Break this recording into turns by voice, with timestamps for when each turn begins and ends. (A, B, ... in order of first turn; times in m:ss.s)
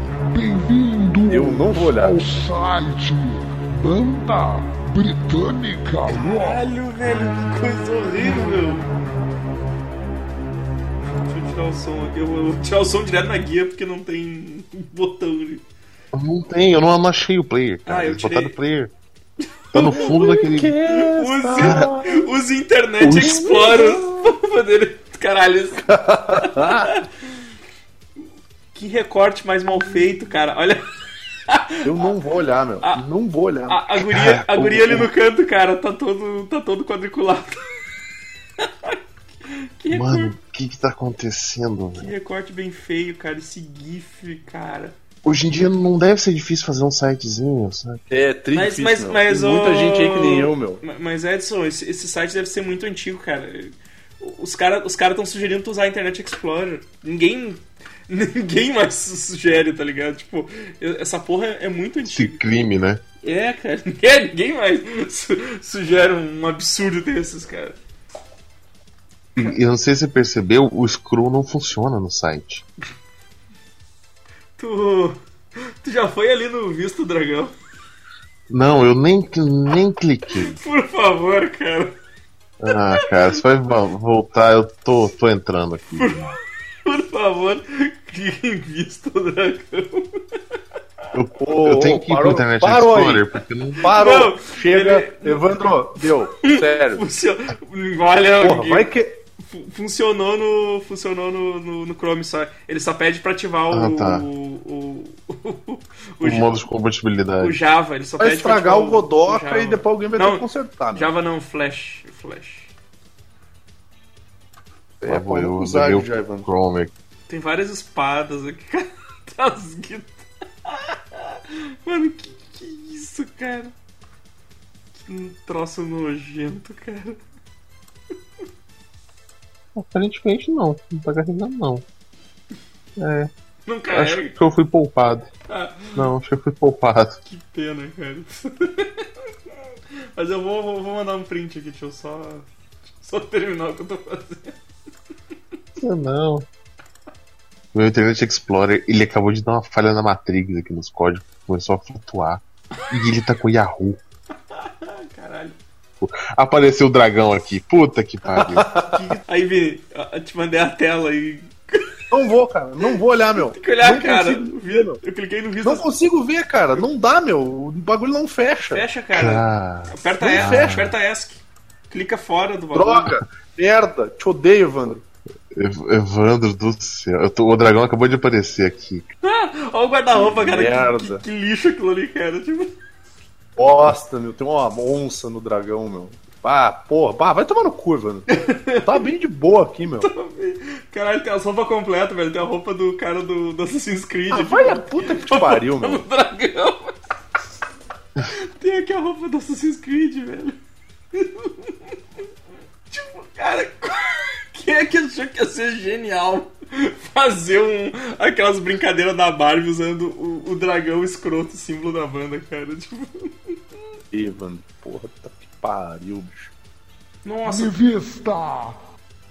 0:00.3-0:06.6 A
0:01.3-0:02.2 B
0:06.1-0:08.9 C
0:11.1-0:15.6 C
0:16.1-0:18.9 D
0:17.8-0:18.6 C
0:19.7-0:20.1 C
0:19.7-0:20.8 D
0:20.0-0:22.2 B
0:20.9-0:27.0 C
0:21.5-0:21.9 D
0:23.0-0:23.4 D
0:23.1-0:24.0 B
0:25.9-0:26.9 B
0:28.7-0:30.9 C
0:31.5-0:31.8 C
0:31.8-0:33.8 B
0:33.7-0:37.8 C
0:34.2-0:35.0 D
0:39.5-0:40.3 C
0:39.9-0:42.1 D
0:42.0-0:45.0 C
0:45.2-0:48.0 D
0:48.1-0:50.8 B
0:48.5-1:02.4 C
1:02.0-1:03.0 D
1:03.2-1:07.8 C
1:09.4-1:12.6 D
1:14.6-1:17.5 C
1:18.5-1:20.6 D
1:20.5-1:21.9 C
1:22.6-1:26.3 D
1:26.0-1:26.3 C
1:26.8-1:30.4 C
1:31.1-1:33.9 D
1:31.3-1:33.3 B
1:33.8-1:37.0 B
1:33.9-1:35.6 C
1:36.4-1:46.5 C
1:38.4-1:39.1 B
1:43.7-1:44.2 D
1:46.2-1:47.6 D
1:47.4-1:52.7 C
1:48.2-1:51.1 B
1:55.0-1:56.5 B
1:55.0-1:56.9 D
1:57.3-2:03.7 C
2:05.0-2:07.2 C
2:09.7-2:11.8 D
2:13.0-2:13.3 D
2:13.7-2:14.3 C
2:13.9-2:15.3 D
2:15.5-2:16.0 C
2:15.9-2:17.2 D
2:17.2-2:19.1 C
2:20.1-2:24.6 C
2:25.8-2:26.5 D
2:27.7-2:34.0 D
2:34.6-2:35.6 C
2:36.0-2:38.7 D
2:38.4-2:38.9 B
2:38.9-2:41.9 C
2:42.1-2:45.0 B
2:43.5-2:45.8 C
2:45.6-2:48.8 B
2:48.7-2:53.1 C
2:49.1-2:50.9 D
2:50.2-2:50.8 B
2:52.7-2:55.0 B
2:55.5-2:59.1 D
2:59.2-3:02.7 C
3:00.1-3:01.2 B
3:03.6-3:08.2 B
3:08.3-3:09.1 C
3:08.8-3:10.1 B
3:10.0-3:17.0 C
3:14.3-3:16.0 B
3:18.3-3:20.6 C
3:21.1-3:21.9 C
3:22.9-3:33.5 C
3:34.1-3:36.5 B
3:37.2-3:37.8 C
3:37.4-3:38.8 A